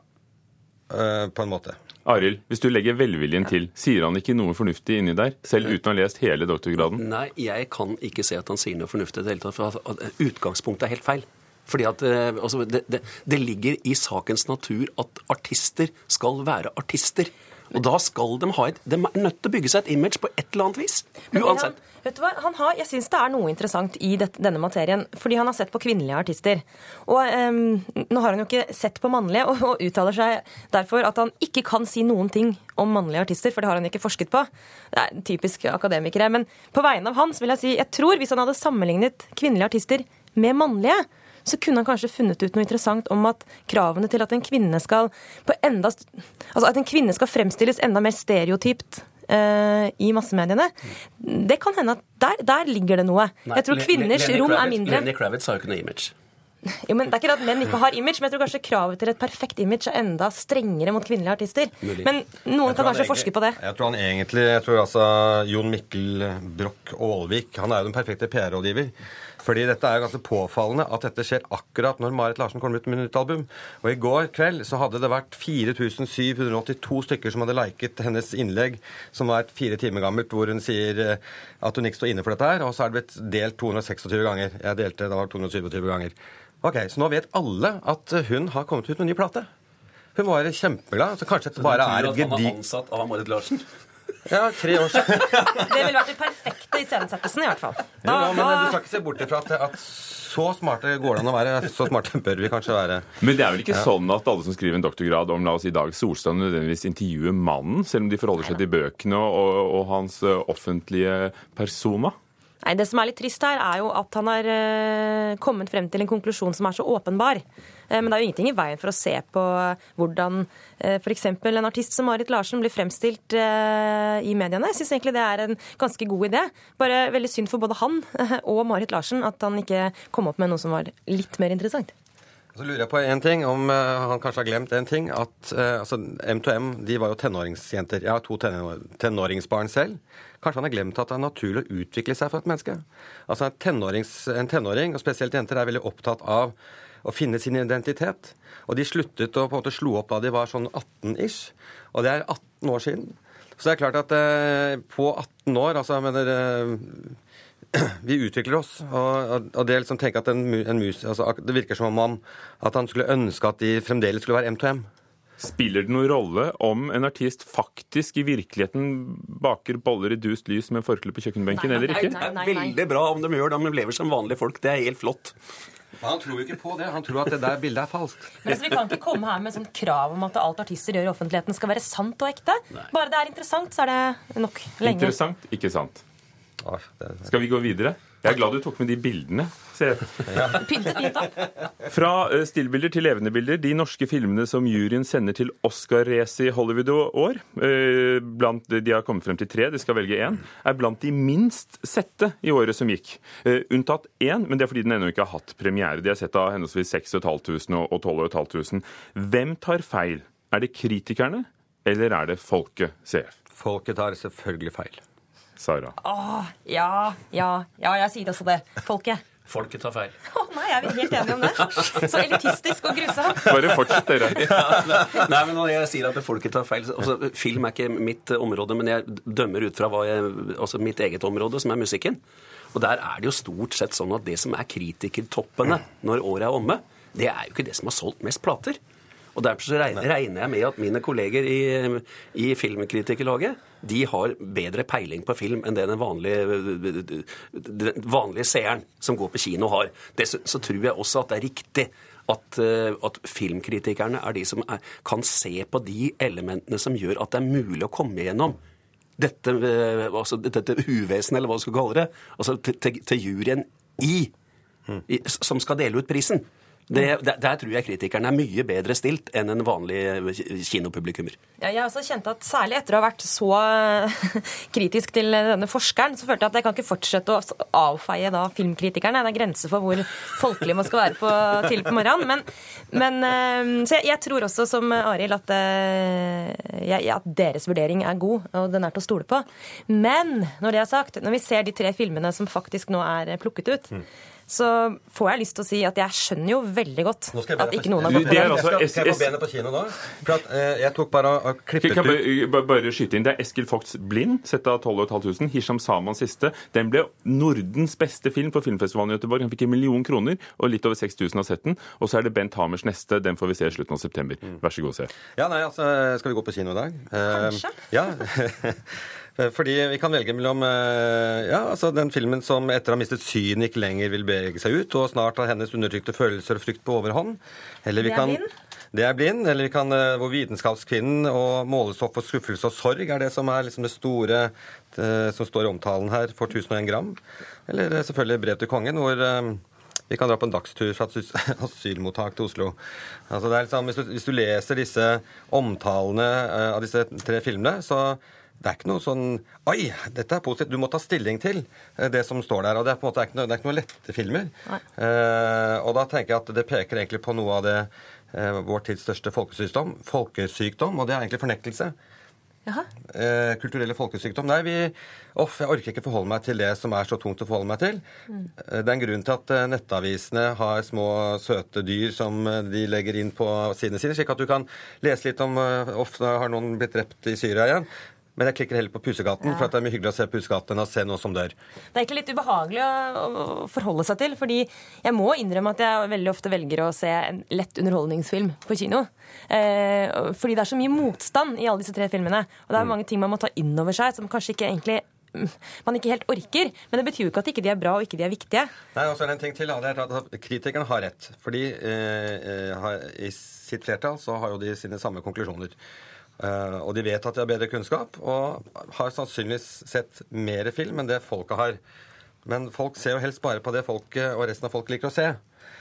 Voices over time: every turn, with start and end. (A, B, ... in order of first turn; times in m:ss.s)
0:00.9-0:01.8 A
0:02.0-0:07.0 B
0:06.9-0:21.8 C
0:21.3-0:55.1 D
0:53.5-0:56.1 C
0:56.8-1:03.6 D
1:01.8-1:02.1 C
1:02.6-1:29.5 A
1:30.1-1:32.6 A
1:31.6-1:33.6 C
1:34.3-1:35.7 A
1:35.6-1:38.8 D
1:38.0-1:43.1 A
1:43.2-1:52.2 B
1:52.6-2:11.9 D
2:12.5-2:37.1 A
2:37.7-2:44.9 A
2:45.4-2:52.2 B
2:51.5-2:52.8 D
2:51.9-2:55.3 C
2:56.0-2:58.4 A
2:58.4-3:05.1 D
3:04.8-3:06.0 B
3:06.6-3:07.3 A
3:07.2-3:10.6 B
3:10.5-3:11.4 D
3:11.9-3:33.3 B
3:33.6-3:35.0 A
3:35.6-3:35.9 B
3:36.0-3:39.2 D
3:39.5-3:40.2 C
3:40.3-3:43.5 D
3:43.4-3:44.5 B
3:44.4-3:52.2 C
3:52.7-3:58.8 C
3:59.3-4:18.6 C
4:19.2-4:24.3 C
4:25.1-4:31.4 C
4:31.6-4:53.9 D
4:54.5-4:58.6 D
4:57.3-5:02.2 A
4:58.0-4:59.3 B
5:01.8-5:15.1 B
5:15.3-5:28.4 A
5:17.3-5:17.8 D
5:28.0-5:28.5 D
5:28.9-5:42.8 A
5:43.3-6:01.9 A
6:03.1-6:08.0 A
6:08.6-6:21.5 A
6:19.4-6:19.7 D
6:21.9-6:38.7 D
6:38.9-6:45.8 A
6:46.4-6:51.8 A
6:52.4-6:55.4 A